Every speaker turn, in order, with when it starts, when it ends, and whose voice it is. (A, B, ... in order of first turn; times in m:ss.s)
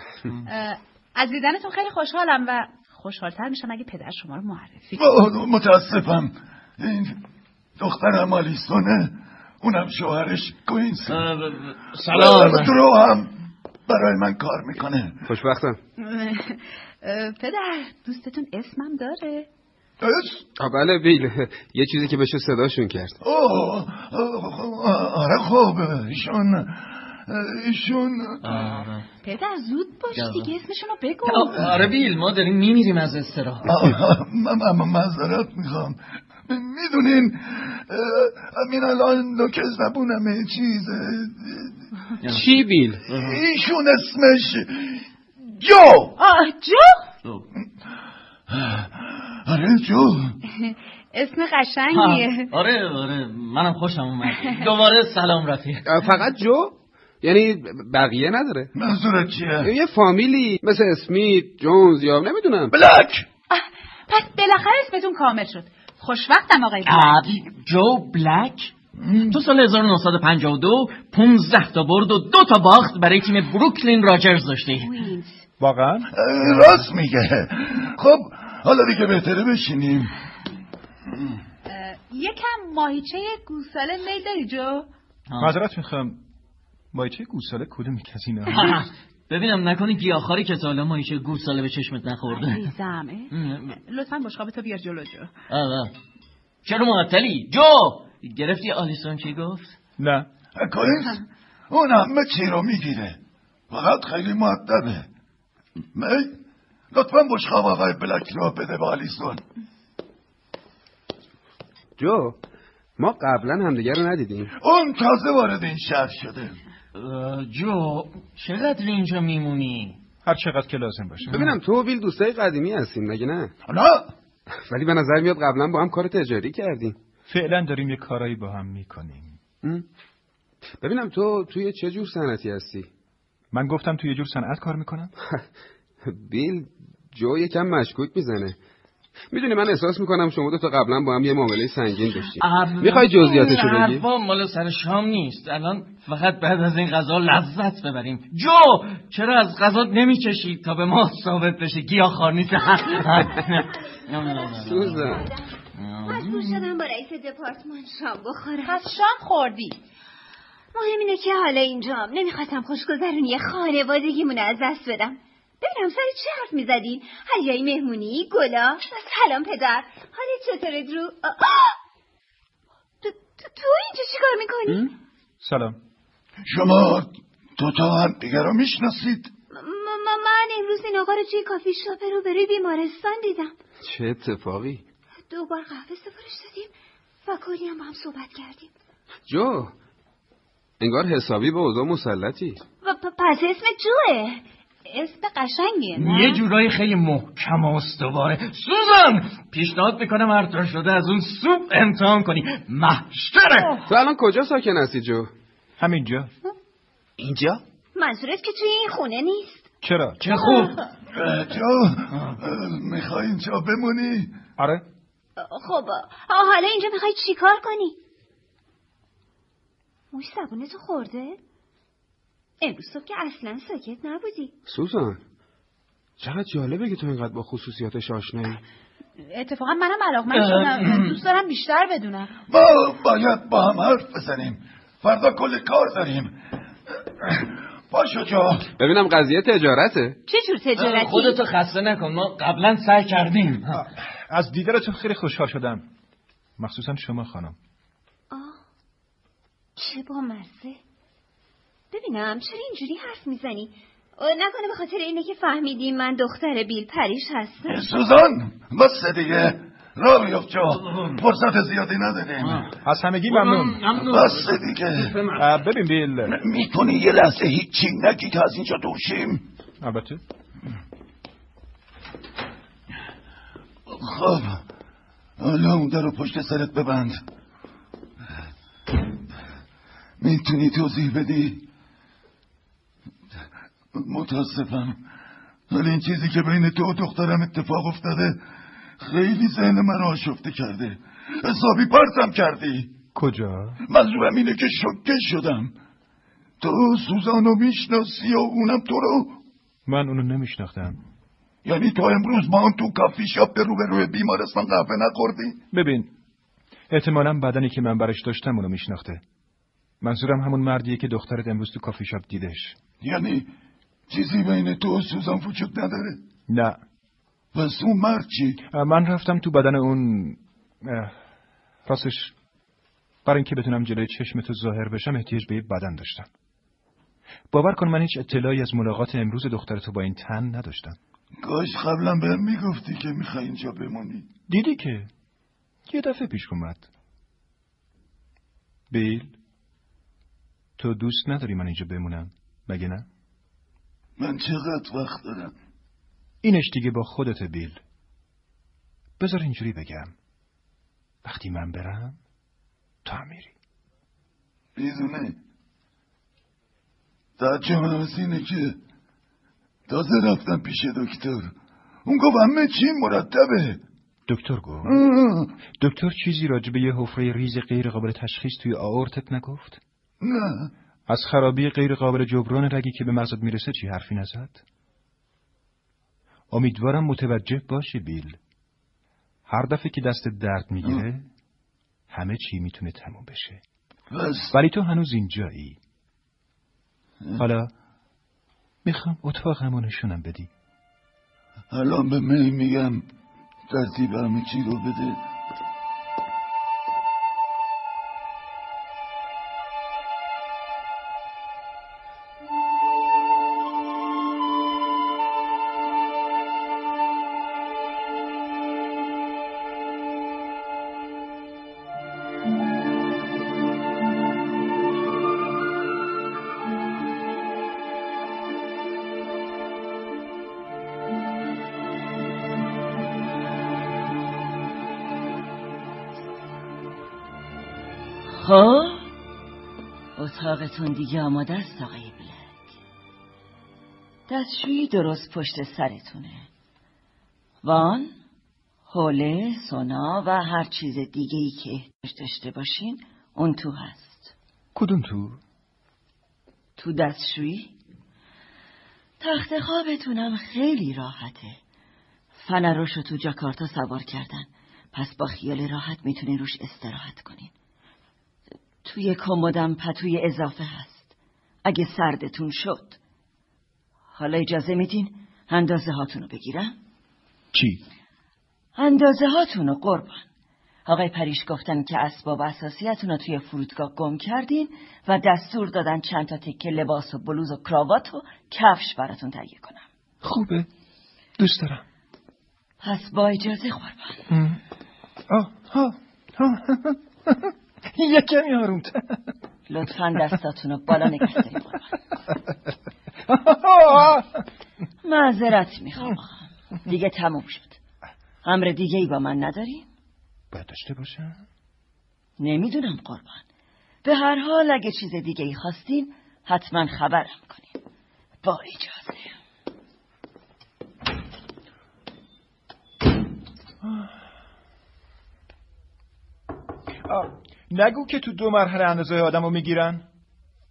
0:00.4-0:05.1 A
0:05.0-0:07.2 B
0:07.8-0:11.3 B
0:11.1-0:12.8 C
0:12.1-0:13.3 B
0:13.9-0:15.2 B
0:15.3-0:15.8 D
0:16.0-0:19.5 A
0:20.0-0:20.4 B
0:20.6-0:23.2 D
0:23.2-0:28.6 B
0:28.4-0:29.1 C
0:29.2-0:31.6 A
0:30.1-0:30.5 C
0:31.2-0:33.7 C
0:33.6-0:36.0 B
0:36.5-0:41.7 B
0:42.2-0:42.5 C
0:42.3-0:43.0 D
0:43.1-0:43.4 C
0:43.1-0:46.2 B
0:46.2-0:47.1 A
0:48.5-0:50.4 B
0:50.6-0:52.5 A
0:51.9-0:55.9 C
0:55.9-0:58.7 D
0:58.8-0:59.7 B
0:59.6-1:02.8 D
1:02.7-1:03.3 B
1:03.5-1:07.2 A
1:06.8-1:08.7 C
1:09.0-1:09.3 B
1:09.2-1:14.9 C
1:15.6-1:16.1 E
1:16.1-1:20.1 B
1:21.7-1:24.9 A
1:25.3-1:25.6 C
1:25.4-1:26.2 E
1:26.9-1:28.7 E
1:28.5-1:32.7 C
1:32.4-1:35.3 A
1:33.3-1:33.8 C
1:35.5-1:35.9 C
1:36.6-1:39.8 C
1:40.0-1:40.3 E
1:40.6-1:43.2 B
1:43.7-1:45.1 B
1:46.0-1:46.4 B
1:46.9-1:49.4 B
1:52.0-1:52.4 D
1:53.0-1:54.5 D
1:54.6-1:56.6 B
1:57.0-2:00.0 C
2:00.2-2:01.4 E
2:01.3-2:03.5 D
2:03.7-2:04.1 B
2:04.7-2:07.0 D
2:07.3-2:09.4 E
2:10.8-2:12.9 D
2:13.5-2:15.1 E
2:16.0-2:18.6 D
2:19.3-2:24.0 D
2:22.4-2:36.7 C
2:34.6-2:35.3 D
2:35.2-2:35.5 F
2:36.1-2:38.9 F
2:38.6-2:39.8 A
2:40.7-2:51.8 F
2:53.0-2:54.9 F
2:55.4-2:55.8 E
2:56.5-2:59.3 B
2:59.5-3:03.6 F
3:03.8-3:04.8 D
3:05.3-3:06.7 F
3:07.2-3:08.7 F
3:09.3-3:09.7 D
3:10.8-3:12.6 D
3:12.8-3:14.4 F
3:14.9-3:16.4 A
3:16.0-3:23.8 C
3:23.9-3:25.3 D
3:25.8-3:26.3 E
3:27.2-3:27.6 D
3:28.0-3:29.7 F
3:29.8-3:30.2 E
3:30.2-3:30.8 C
3:30.4-3:30.7 F
3:31.1-3:34.3 B
3:32.1-3:32.4 C
3:34.6-3:34.8 E
3:35.4-3:38.0 F
3:40.1-3:41.4 F
3:42.6-3:44.5 F
3:44.7-3:45.2 D
3:46.2-3:48.6 D
3:49.2-3:52.4 A
3:50.3-3:51.2 C
3:52.5-3:56.3 B
3:57.2-3:58.7 B
3:58.8-4:00.2 D
4:00.3-4:01.4 F
4:00.8-4:03.8 C
4:03.7-4:05.8 E
4:06.6-4:07.6 E
4:08.3-4:08.6 F
4:09.8-4:10.8 F
4:11.9-4:17.8 F
4:17.7-4:22.7 B
4:20.7-4:21.2 C
4:22.4-4:22.7 C
4:22.8-4:23.8 E
4:23.3-4:25.4 C
4:24.0-4:25.2 B
4:25.4-4:26.4 E
4:26.3-4:29.5 B
4:29.8-4:30.2 E
4:33.9-4:34.6 B
4:35.4-4:37.2 B
4:40.2-4:41.6 B
4:43.9-4:45.0 B
4:45.7-4:48.4 B
4:49.0-4:52.9 B
4:53.2-4:53.8 E
4:53.9-4:55.7 B
4:56.6-4:59.4 B
4:59.9-5:01.0 E
5:01.6-5:05.6 B
5:05.7-5:06.1 E
5:06.9-5:09.2 E
5:10.0-5:12.8 E
5:13.0-5:13.5 B
5:14.1-5:16.2 B
5:16.5-5:16.8 E
5:17.5-5:18.6 B
5:18.7-5:21.2 E
5:21.9-5:22.3 E
5:23.2-5:26.3 E
5:27.5-5:31.0 E
5:31.4-5:34.3 B
5:34.5-5:35.1 E
5:35.9-5:36.9 E
5:38.9-5:39.3 E
5:40.8-5:43.1 E
5:44.2-5:45.5 B
5:46.4-5:47.8 E
5:49.2-5:50.1 E
5:51.2-5:52.2 E
5:53.0-5:53.5 E
5:54.8-5:55.4 B
5:57.4-5:58.8 B
5:59.9-6:01.5 B
6:02.1-6:03.8 B
6:04.3-6:05.0 E
6:04.8-6:05.5 B
6:05.8-6:09.8 E
6:10.2-6:10.7 B
6:11.1-6:14.6 E
6:16.5-6:18.4 E
6:19.5-6:21.3 E
6:22.1-6:23.6 E
6:24.1-6:24.5 B
6:24.5-6:25.8 E
6:27.4-6:27.7 E
6:28.8-6:30.5 E
6:31.7-6:33.0 B
6:33.7-6:35.2 B
7:08.3-7:09.1 G
7:10.2-7:12.7 G
7:14.3-7:16.5 G
7:17.6-7:18.2 G
7:18.9-7:24.3 G
7:24.8-7:25.4 E
7:26.8-7:27.7 G
7:29.2-7:31.6 G
7:32.4-7:37.5 G
7:38.8-7:41.1 G
7:41.6-7:43.0 G
7:44.1-7:46.8 G
7:47.5-7:47.8 E
7:48.8-7:50.2 G
7:50.8-7:59.9 G
8:00.2-8:00.7 E
8:01.4-8:01.8 E
8:02.8-8:04.3 G
8:04.3-8:04.6 E
8:05.3-8:09.3 E
8:09.7-8:12.0 G
8:13.3-8:14.4 E
8:15.0-8:17.8 G
8:18.4-8:19.9 G
8:20.5-8:21.4 E
8:22.4-8:23.4 G
8:24.0-8:27.8 G
8:28.4-8:29.4 G
8:33.8-8:34.1 E
8:37.1-8:40.0 E